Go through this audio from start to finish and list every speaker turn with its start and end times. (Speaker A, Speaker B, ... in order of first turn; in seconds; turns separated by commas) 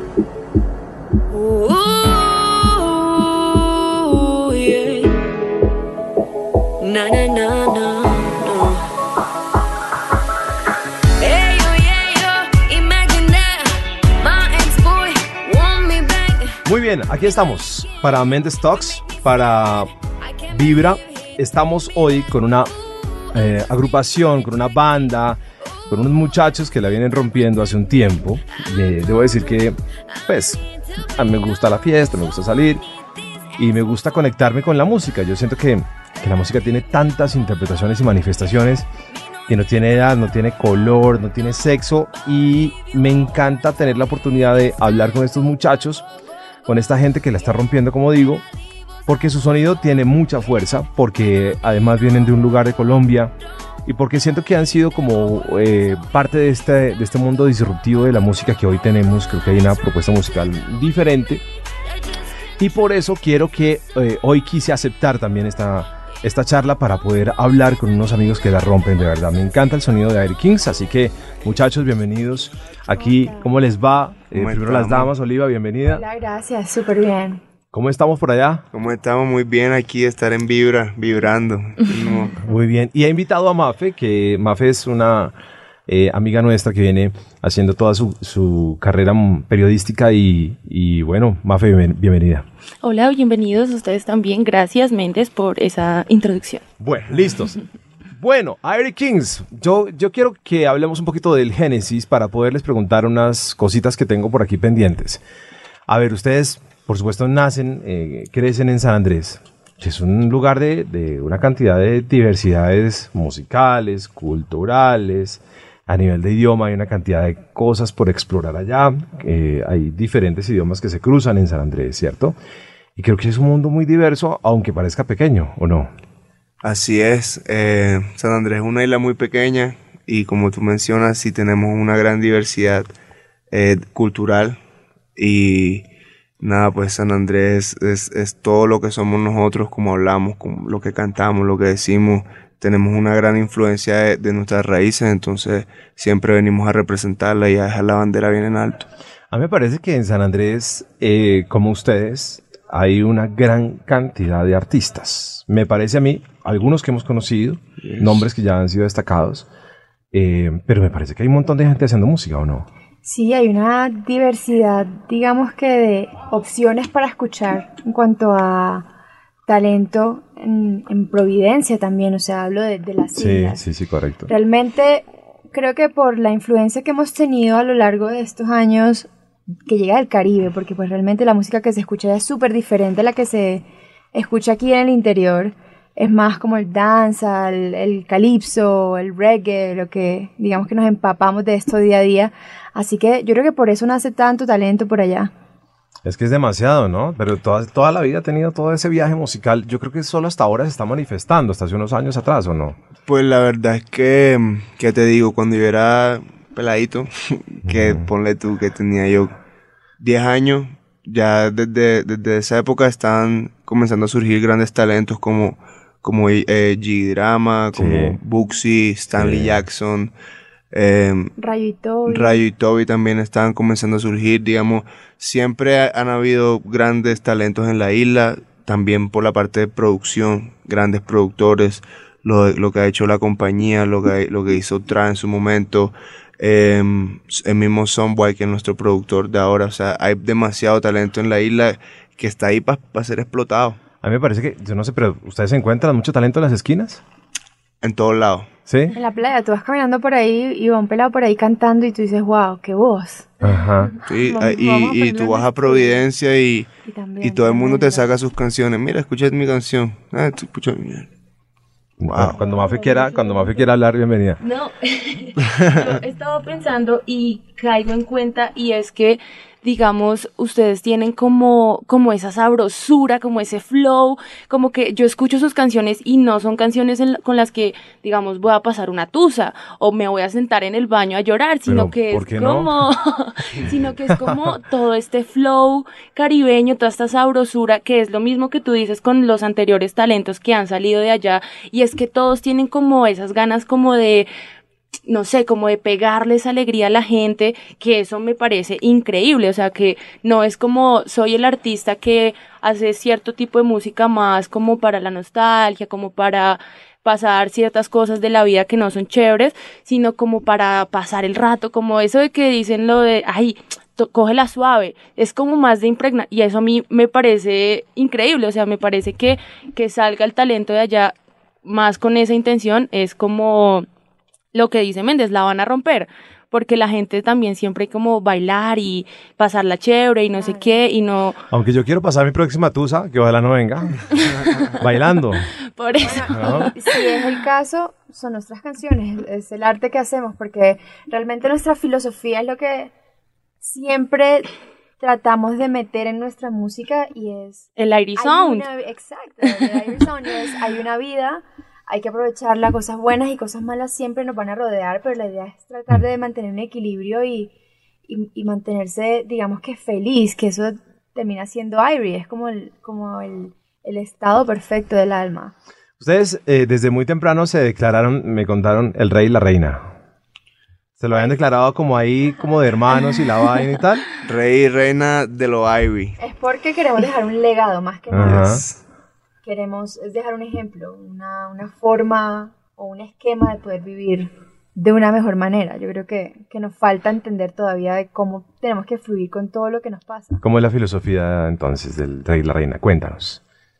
Speaker A: 1.3-5.2, Speaker A: 6.8-8.8, Speaker A: 11.2-16.6, Speaker B: 16.6-19.9, Speaker B: 20.5-22.7, Speaker B: 23.3-32.9, Speaker B: 33.6-38.9, Speaker B: 39.5-46.1, Speaker B: 46.6-48.4, Speaker B: 49.0-53.3, Speaker B: 53.9-61.4, Speaker B: 62.6-76.0, Speaker C: 73.0-73.4, Speaker D: 74.3-75.1, Speaker C: 75.9-77.4, Speaker B: 77.7-78.7, Speaker D: 78.7-82.4, Speaker B: 82.4-85.3, Speaker B: 85.9-92.5, Speaker E: 92.8-96.6, Speaker B: 96.8-97.6, Speaker B: 98.1-105.2, Speaker B: 105.9-122.3, Speaker B: 123.0-125.9, Speaker D: 126.6-132.9, Speaker D: 133.5-134.6, Speaker D: 135.2-135.8, Speaker D: 136.4-148.9, Speaker B: 149.3-159.5, Speaker D: 157.8-158.2, Speaker B: 160.1-162.7, Speaker C: 163.0-168.9, Speaker C: 169.5-173.6, Speaker B: 173.2-174.3, Speaker C: 174.3-179.1, Speaker C: 179.7-195.3, Speaker B: 196.0-202.8, Speaker D: 203.1-209.4, Speaker B: 207.7-208.1, Speaker D: 210.0-220.1, Speaker B: 217.7-218.2, Speaker B: 219.2-219.6, Speaker D: 220.7-221.3, Speaker C: 221.4-222.4, Speaker D: 222.1-243.8, Speaker B: 244.0-247.0, Speaker D: 247.8-248.5, Speaker B: 248.7-248.9, Speaker C: 248.9-256.0, Speaker B: 253.4-253.9, Speaker D: 254.1-261.1, Speaker C: 256.9-258.0, Speaker B: 262.0-264.4, Speaker D: 262.1-262.4, Speaker E: 262.4-263.6, Speaker E: 264.4-294.3, Speaker B: 281.7-282.9, Speaker B: 284.1-284.4, Speaker E: 295.1-323.9, Speaker E: 324.5-331.4, Speaker C: 330.4-330.8, Speaker B: 331.5-334.1, Speaker E: 334.3-334.7, Speaker B: 334.7-335.5, Speaker E: 335.7-337.3, Speaker C: 336.0-342.9, Speaker B: 336.3-336.7, Speaker C: 343.6-344.5, Speaker C: 345.0-357.5, Speaker E: 347.8-348.7, Speaker C: 358.1-365.5, Speaker B: 366.0-369.8, Speaker B: 371.0-374.1, Speaker D: 374.2-376.1, Speaker C: 376.2-378.6, Speaker B: 378.1-378.6, Speaker D: 378.2-378.7, Speaker C: 379.4-390.4, Speaker B: 390.4-393.4